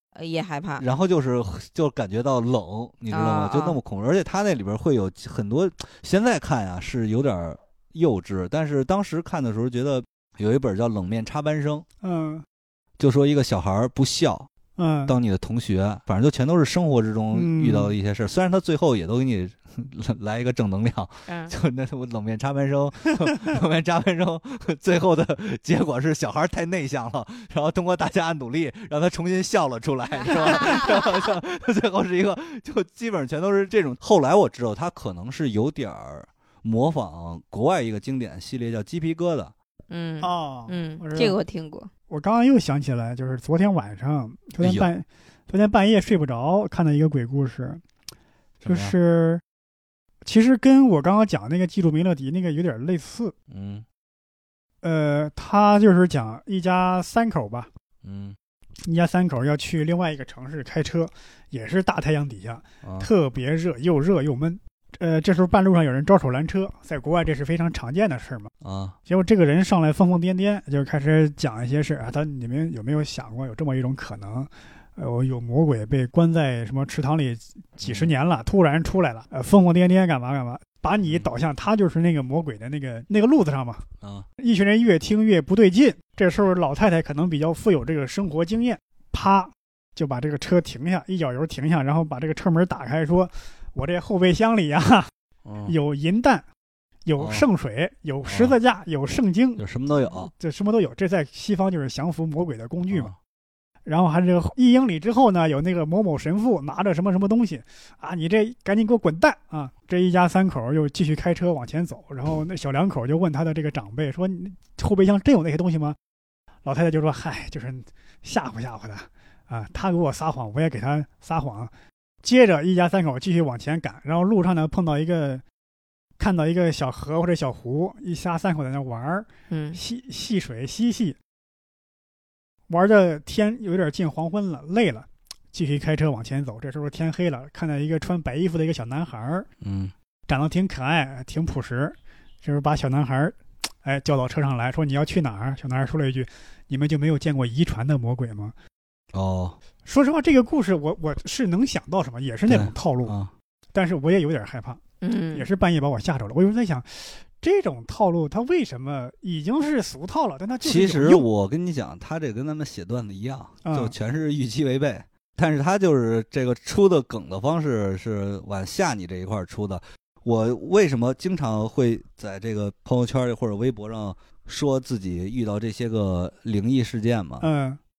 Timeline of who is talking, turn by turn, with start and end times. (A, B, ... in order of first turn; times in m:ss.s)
0:00.2-0:00.8 A
0:00.8-0:11.8 B
0:03.1-0:03.8 A
0:12.0-0:12.4 C
0:13.0-0:14.5 B
0:14.8-0:15.2 C
0:15.1-0:39.5 B
0:17.3-0:17.9 C
0:21.3-0:21.5 A
0:30.1-0:31.2 A
0:39.9-0:41.9 A
0:40.2-0:41.4 C
0:42.1-0:47.8 C
0:44.6-0:44.9 B
0:48.6-0:48.9 B
0:48.7-0:49.4 C
0:50.2-0:53.3 C
0:53.5-0:53.8 B
0:54.8-0:57.7 C
0:58.0-0:58.4 B
0:58.8-1:08.5 C
1:02.8-1:03.1 B
1:08.6-1:09.0 B
1:09.1-1:23.8 C
1:17.8-1:18.1 B
1:24.0-1:24.3 B
1:24.4-1:35.1 C
1:35.4-1:35.7 B
1:35.7-1:36.4 C
1:37.1-1:39.6 C
1:37.2-1:37.5 B
1:38.3-1:38.6 B
1:39.6-1:40.3 B
1:40.2-1:43.1 C
1:43.9-1:56.0 C
1:56.6-2:01.7 C
2:02.2-2:05.4 C
2:06.2-2:11.2 C
2:09.5-2:09.8 A
2:12.7-2:19.5 C
2:19.6-2:19.9 B
2:20.3-2:28.5 C
2:29.1-2:29.6 B
2:29.8-2:33.2 C
2:32.5-2:33.3 B
2:33.7-2:34.8 C
2:35.0-2:35.5 A
2:35.3-2:41.3 C
2:40.6-2:57.5 B
2:43.6-2:43.9 C
2:57.4-2:57.8 C